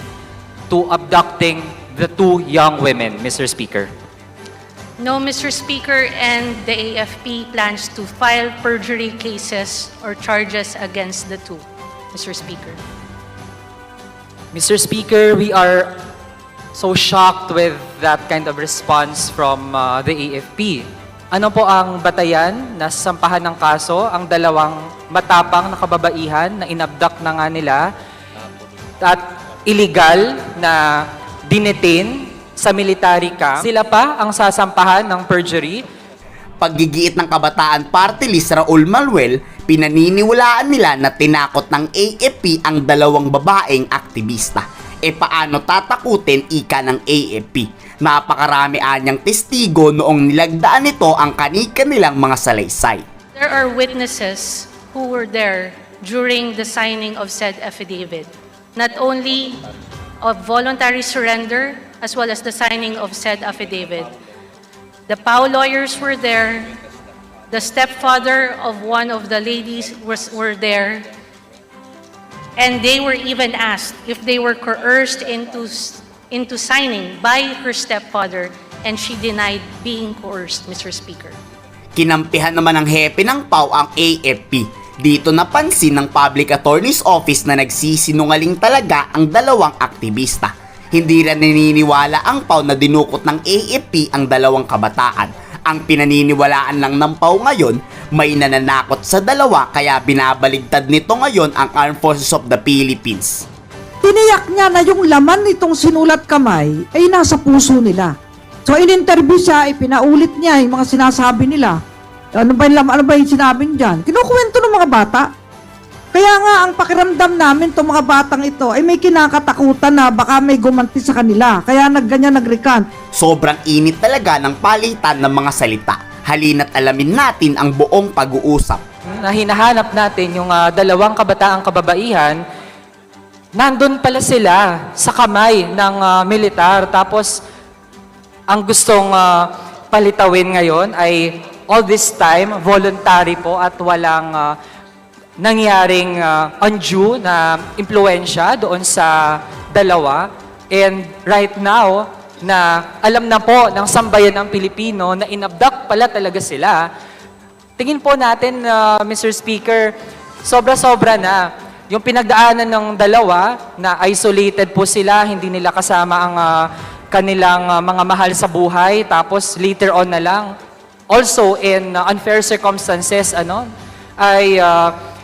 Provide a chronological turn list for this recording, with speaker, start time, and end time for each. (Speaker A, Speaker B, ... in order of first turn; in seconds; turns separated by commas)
Speaker A: 0.7-3.9, Speaker B: 5.0-12.8, Speaker A: 14.5-16.0, Speaker A: 16.8-27.9, Speaker A: 29.0-35.9, Speaker C: 36.6-53.0, Speaker B: 53.4-59.6, Speaker B: 60.2-64.1, Speaker B: 65.1-66.8, Speaker B: 67.5-71.1, Speaker B: 72.6-81.4, Speaker C: 82.0-103.5, Speaker D: 104.0-108.2, Speaker D: 108.7-111.8, Speaker D: 112.4-115.3, Speaker D: 116.1-122.8, Speaker C: 123.2-128.8, Speaker A: 129.1-132.4, Speaker A: 133.6-137.4, Speaker A: 138.5-144.6, Speaker A: 145.4-156.9, Speaker A: 157.8-159.9, Speaker A: 160.4-170.5, Speaker A: 171.1-174.9